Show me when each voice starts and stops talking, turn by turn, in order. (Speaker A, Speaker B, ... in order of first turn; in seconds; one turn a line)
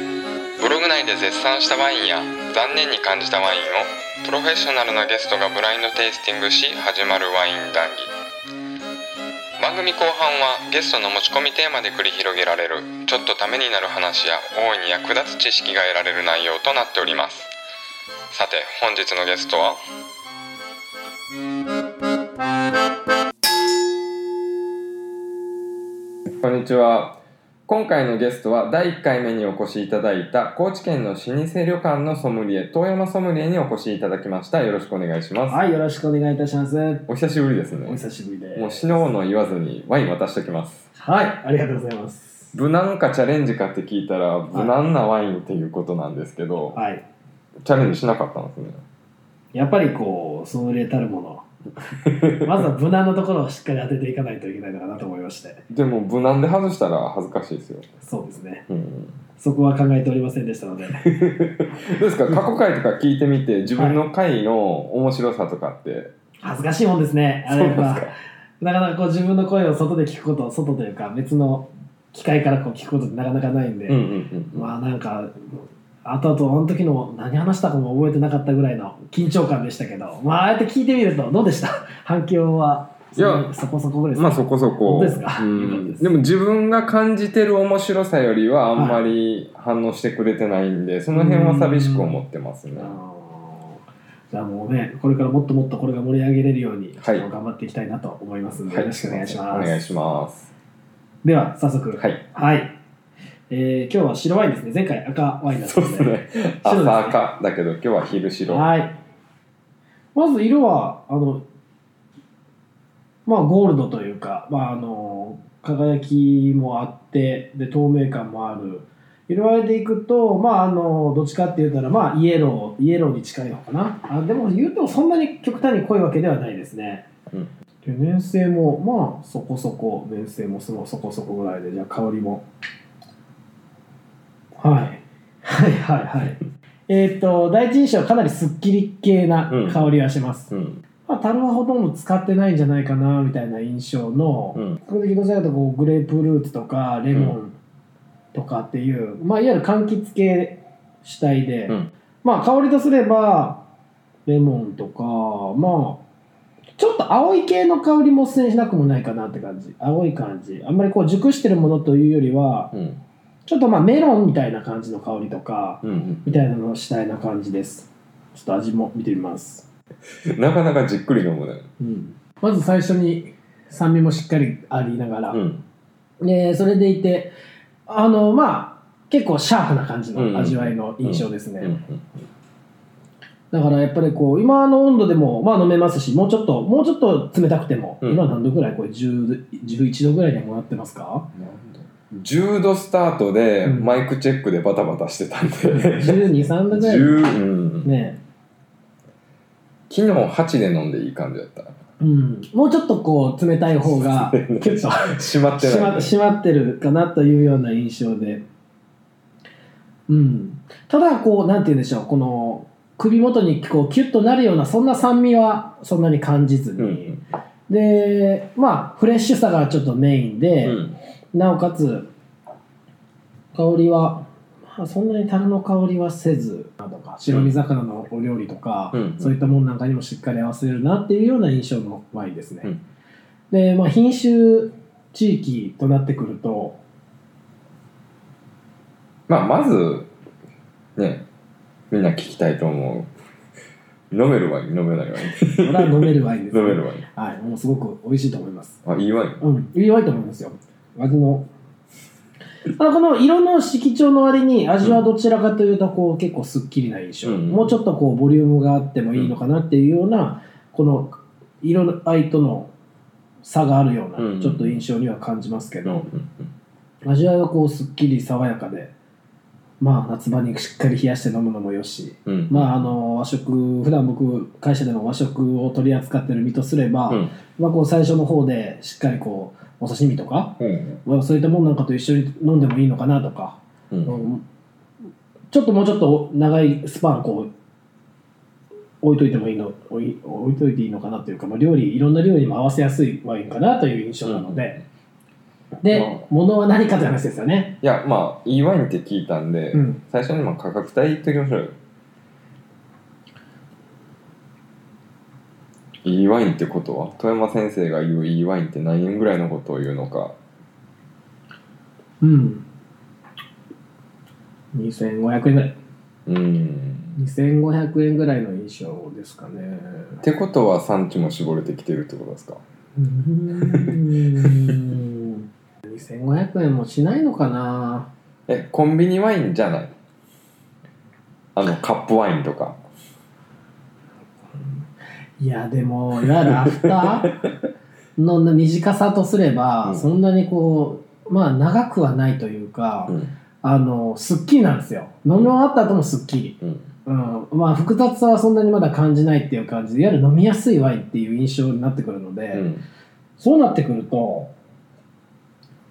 Speaker A: 0.6-8.1
Speaker A: 9.6-17.5
Speaker A: 18.3-19.8
Speaker A: 26.4-35.6
Speaker B: 35.5-37.1
Speaker A: 37.1-38.0
Speaker B: 37.9-39.0
Speaker A: 38.5-40.8
Speaker B: 41.0-42.5
Speaker A: 42.5-46.8
Speaker B: 46.7-47.0
Speaker A: 47.6-48.8
Speaker B: 49.5-51.5
Speaker A: 52.0-52.4
Speaker B: 52.4-55.6
Speaker A: 55.7-57.9
Speaker B: 58.0-58.6
Speaker A: 58.7-59.1
Speaker B: 59.4-61.1
Speaker A: 61.0-66.1
Speaker B: 66.4-86.1
Speaker A: 67.5-68.1
Speaker A: 73.9-74.7
Speaker A: 83.2-83.5
Speaker A: 84.1-93.0
Speaker B: 88.8-89.1
Speaker B: 91.1-92.2
Speaker B: 92.8-93.8
Speaker B: 94.3-99.9
Speaker A: 97.0-97.3
Speaker A: 98.7-100.5
Speaker B: 101.2-102.8
Speaker B: 103.5-107.2
Speaker A: 105.6-108.7
Speaker B: 108.5-109.0
Speaker B: 110.2-111.5
Speaker B: 113.3-127.0
Speaker B: 127.8-132.4
Speaker B: 134.6-140.5
Speaker A: 139.5-139.9
Speaker A: 140.5-140.8
Speaker B: 141.1-147.6
Speaker B: 148.3-153.7
Speaker B: 154.3-156.0
Speaker B: 156.8-162.7
Speaker A: 162.7-163.0
Speaker B: 163.5-169.7
Speaker A: 165.8-166.4
Speaker A: 170.3-171.7
Speaker B: 171.8-175.4
Speaker A: 175.3-175.6
Speaker B: 176.2-177.3
Speaker B: 177.9-181.8
Speaker A: 180.2-182.0
Speaker B: 183.5-191.3
Speaker A: 188.0-188.3
Speaker A: 191.3-197.9
Speaker B: 193.6-194.0
Speaker B: 195.7-197.3
Speaker B: 197.8-198.2
Speaker A: 199.9-201.7
Speaker B: 202.0-208.4
Speaker A: 203.8-206.1
Speaker B: 210.1-220.8
Speaker A: 216.8-217.2
Speaker A: 220.6-221.0
Speaker B: 221.3-222.1
Speaker B: 223.5-232.7
Speaker A: 228.9-229.3
Speaker B: 233.5-236.8
Speaker A: 239.3-240.1
Speaker A: 241.0-241.2
Speaker A: 241.9-243.1
Speaker A: 244.1-247.0
Speaker B: 245.6-248.8
Speaker A: 248.8-249.4
Speaker B: 249.4-251.5
Speaker B: 252.7-262.7
Speaker A: 257.2-257.7
Speaker B: 263.4-266.1
Speaker A: 264.2-264.8
Speaker A: 265.9-266.5
Speaker B: 267.0-268.9
Speaker B: 269.8-284.4
Speaker A: 272.3-272.8
Speaker A: 280.6-281.0
Speaker A: 283.9-284.2
Speaker B: 285.5-287.5
Speaker B: 289.0-294.8
Speaker A: 294.3-294.8
Speaker B: 295.8-297.8
Speaker A: 295.9-296.2
Speaker A: 297.8-301.8
Speaker B: 299.7-300.0
Speaker A: 306.1-310.3
Speaker B: 312.2-312.6
Speaker B: 314.7-315.8
Speaker A: 316.3-317.1
Speaker B: 317.2-320.2
Speaker A: 320.2-322.6
Speaker B: 323.0-328.1
Speaker A: 323.6-323.9
Speaker A: 328.5-329.9
Speaker A: 331.6-332.8
Speaker B: 335.4-337.4
Speaker A: 336.8-337.1
Speaker B: 338.2-352.7
Speaker A: 352.5-352.8
Speaker B: 353.4-354.5